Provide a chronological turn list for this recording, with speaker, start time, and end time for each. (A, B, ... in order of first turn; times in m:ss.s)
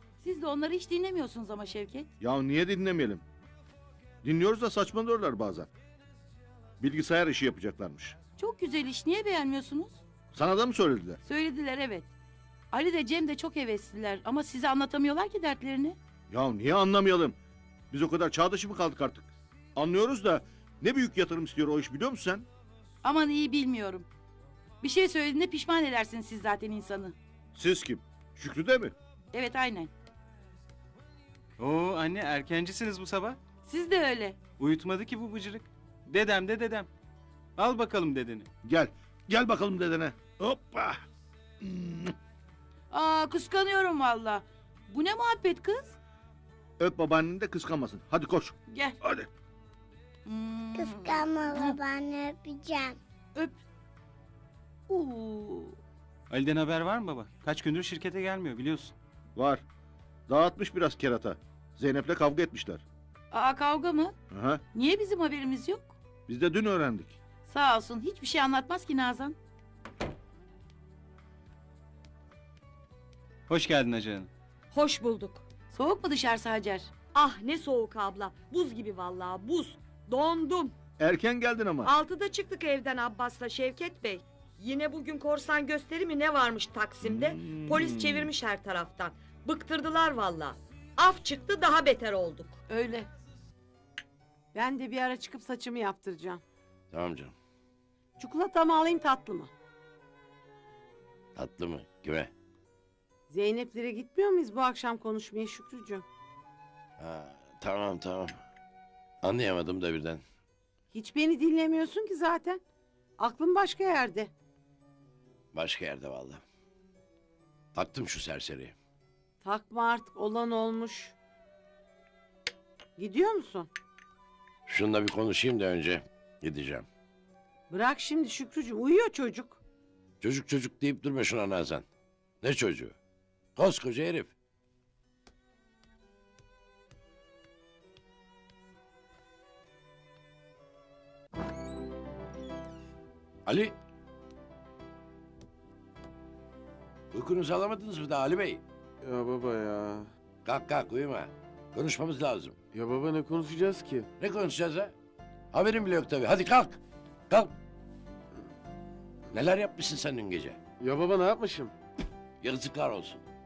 0:00.2-0:02.1 A
0:02.2-0:03.2 B
0:04.2-0:05.7 B
0:06.8-0:08.2 B
0:08.4-0:10.0 A
0:10.3-0:11.2 B
0:11.2-0:12.1 A
0:12.7-0:16.0 A
0:16.3-0:17.4 B
0:17.9-0:22.5 B
0:23.0-0:24.1 A
0:24.8-0:27.2 A
0:27.6-0:29.0 B
0:29.3-0:29.9 A
0:31.6-0:33.4 C
0:33.6-0:34.4 A
0:34.6-0:36.9 C
0:37.6-0:38.5 C
0:38.6-0:41.0 B
0:41.6-0:42.1 B
0:42.9-0:46.0 A
0:46.8-0:49.3 B
0:48.7-0:49.0 A
0:50.3-0:51.8 A
0:53.4-0:53.6 A
0:54.9-0:55.8 A
0:56.3-0:58.9 C
0:59.4-0:59.6 B
1:00.3-1:02.8 B
1:03.3-1:04.2 A
1:04.3-1:04.6 B
1:04.7-1:05.9 A
1:06.3-1:07.2 B
1:07.5-1:09.4 A
1:13.5-1:14.3 C
1:14.7-1:15.4 D
1:15.7-1:16.9 A
1:17.1-1:20.8 D
1:21.0-1:21.9 B
1:21.8-1:32.5 D
1:27.0-1:28.3 B
1:32.7-1:33.1 A
1:34.5-1:36.4 E
1:36.9-1:37.3 F
1:38.2-1:39.5 E
1:41.4-1:42.3 F
1:43.3-1:46.0 E
1:47.0-1:48.4 F
1:49.2-1:50.2 F
1:50.9-1:52.6 E
1:53.2-1:54.3 E
1:55.5-1:56.4 F
1:57.8-1:58.7 F
1:59.4-2:01.1 E
2:03.0-2:03.7 E
2:04.7-2:06.9 F
2:07.7-2:09.6 E
2:10.2-2:11.8 F
2:12.4-2:12.9 F
2:13.6-2:14.3 F
2:23.5-2:23.7 F
2:27.1-2:28.6 F
2:29.0-2:30.1 G
2:30.4-2:32.5 F
2:32.7-2:34.1 G
2:34.2-2:34.9 F
2:35.5-2:36.8 F
2:39.3-2:40.6 F
2:40.8-2:41.7 G
2:42.4-2:43.2 F